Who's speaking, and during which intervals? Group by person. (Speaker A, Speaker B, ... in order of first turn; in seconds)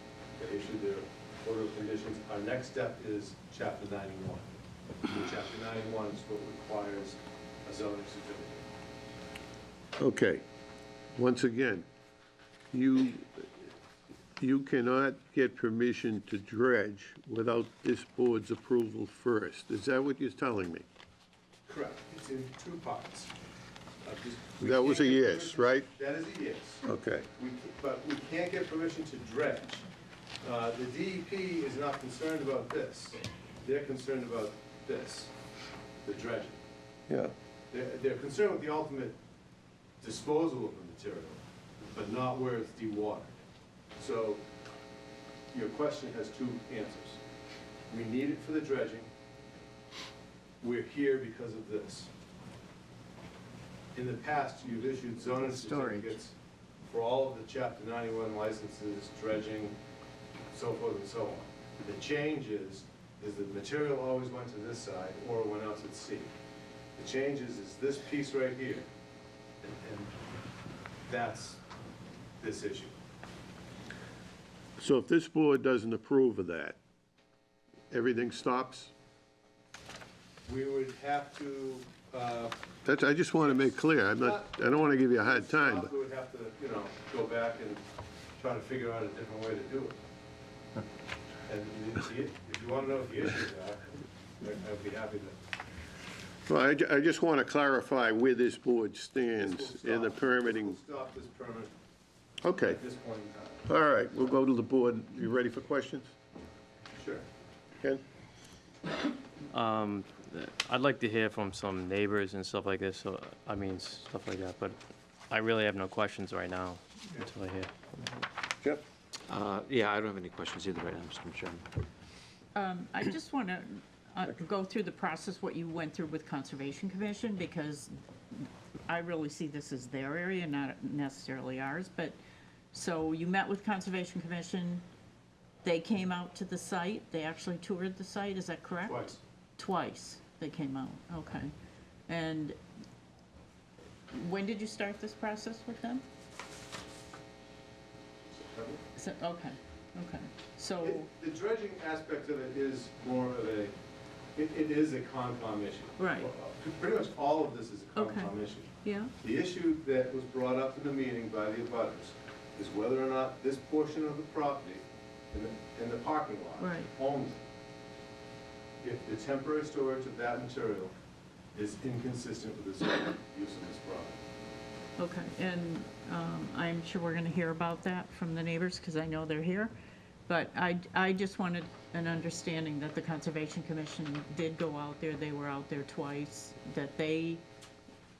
Speaker A: 0.4-4.5, 5.1-8.7, 21.7-23.3, 24.0-29.9, 30.4-35.3, 36.0-36.6, 37.7-39.2, 40.0-43.4, 44.0-44.4, 45.5-47.2, 47.9-49.1, 50.6-52.1, 54.0-59.8, 60.5-66.3, 67.0-68.9, 69.6-70.1, 71.1-71.6, 72.4-73.0, 80.5-87.8, 88.4-90.0, 91.5-95.4, 99.3-101.7, 102.5-103.7, 107.0-107.2, 138.8-139.2, 148.5-148.8, 150.8-153.8, 154.4-167.4, 168.8-170.9, 171.6-174.2
Speaker B: 10.0-10.4, 11.2-11.8, 12.7-13.7, 14.4-20.9, 24.6-25.9, 26.9-27.3, 74.8-76.8, 77.9-78.9, 82.8-85.9, 96.5-100.8, 102.4-102.8, 103.7-106.1
Speaker C: 55.4-56.1, 122.5-132.2, 132.7-134.8, 135.6-139.0, 139.6-141.5, 142.1-142.6, 144.1-146.0, 149.0-151.1, 156.0-156.3, 157.9-159.1, 166.6-166.9, 175.0-179.7, 180.3-187.4
Speaker D: 109.5-114.8, 115.3-118.2
Speaker E: 119.3-121.6